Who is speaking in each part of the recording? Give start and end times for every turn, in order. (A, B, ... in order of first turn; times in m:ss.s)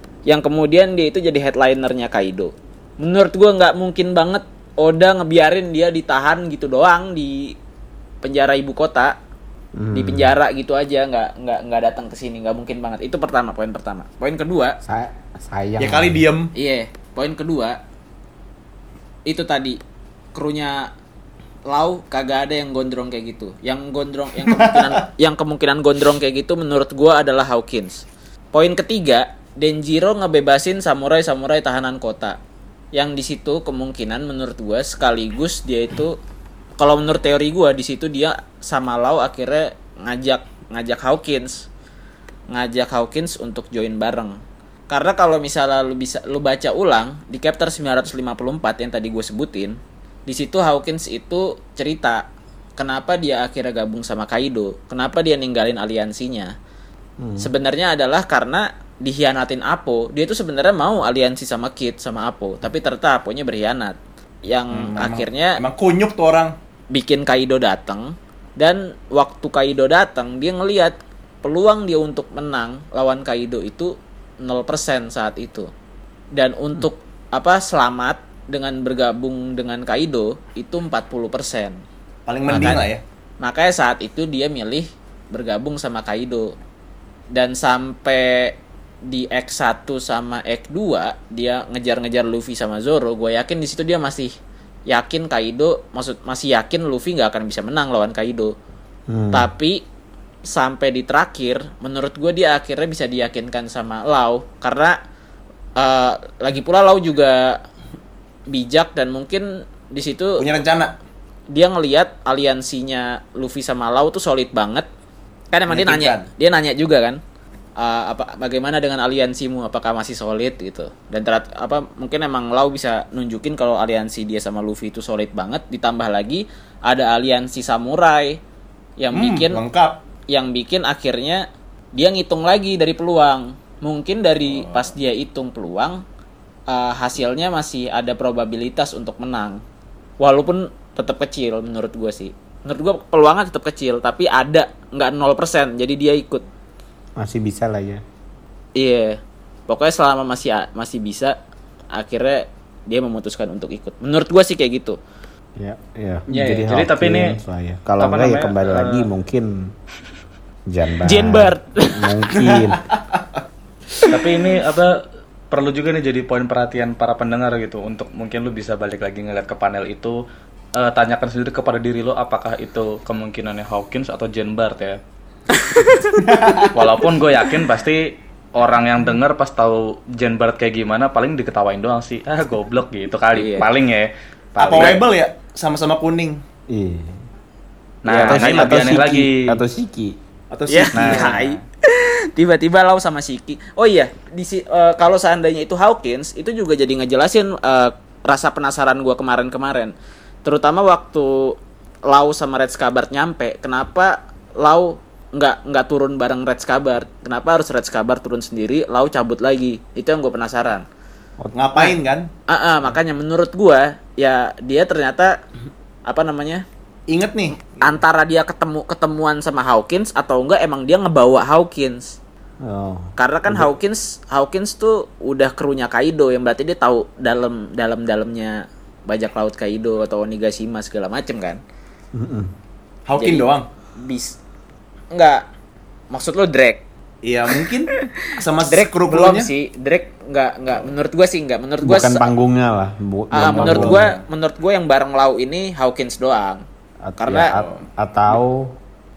0:00.2-0:07.5 A
0:08.2-0:09.2 A
0:09.7-0:10.4 B
0:09.9-0:14.8 A
0:14.8-0:16.2 B
0:15.8-0:16.5 C
0:16.5-0:17.8 A
0:19.2-0:19.8 A
0:20.3-0:20.9 A
0:21.7-0:32.4 A
0:24.5-0:24.9 C
0:32.9-0:36.2 A
0:36.8-0:41.7 A
0:42.5-0:44.4 A
0:44.9-0:52.2 A
0:52.8-0:56.5 A
0:57.2-0:57.5 B
0:57.4-1:05.6 A
1:04.7-1:06.5 C
1:06.9-1:15.7 A
1:16.3-1:21.8 A
1:22.3-1:23.0 C
1:22.5-1:22.8 B
1:22.5-1:22.8 A
1:23.4-1:26.5 A
1:27.3-1:34.3 A
1:34.9-1:38.5 A
1:39.1-1:39.5 B
1:39.3-1:39.8 A
1:40.4-1:45.0 A
1:45.8-1:47.6 A
1:48.5-1:50.4 A
1:50.4-1:50.9 C
1:51.5-1:54.9 A
1:55.5-1:57.2 A
1:55.7-1:56.2 C
1:57.8-2:08.4 A
2:09.0-2:09.6 A
2:09.1-2:10.0 C
2:10.3-2:16.0 A
2:16.7-2:19.6 A
2:20.2-2:26.4 A
2:27.2-2:28.0 B
2:28.8-2:31.4 A
2:31.9-2:35.0 A
2:35.6-2:39.7 B
2:36.3-2:37.4 D
2:38.0-2:39.1 D
2:40.7-2:42.8 B
2:41.0-2:42.3 A
2:44.1-2:50.2 D
2:50.7-2:55.0 D
2:55.7-2:56.1 A
2:56.2-2:56.8 C
2:56.7-3:05.0 D
3:03.3-3:03.7 A
3:04.6-3:06.4 C
3:06.7-3:07.2 B
3:08.0-3:09.6 D
3:08.1-3:09.0 C
3:08.2-3:10.2 B
3:10.5-3:11.3 C
3:10.7-3:30.8 A
3:10.9-3:11.6 D
3:31.5-3:32.3 C
3:32.5-3:35.4 A
3:36.0-3:36.6 A
3:37.1-3:37.7 C
3:37.8-3:42.2 A
3:42.6-3:43.7 B
3:43.2-3:51.6 A
3:52.1-3:52.5 B
3:53.1-3:53.6 C
3:53.2-3:54.4 A
3:55.1-3:55.4 A
3:56.1-3:56.8 A
3:57.2-3:59.5 C
3:57.6-4:02.3 A
4:01.8-4:04.1 B
4:03.3-4:06.6 A
4:03.4-4:04.2 C
4:07.0-4:08.8 B
4:07.2-4:07.6 A
4:07.5-4:07.8 C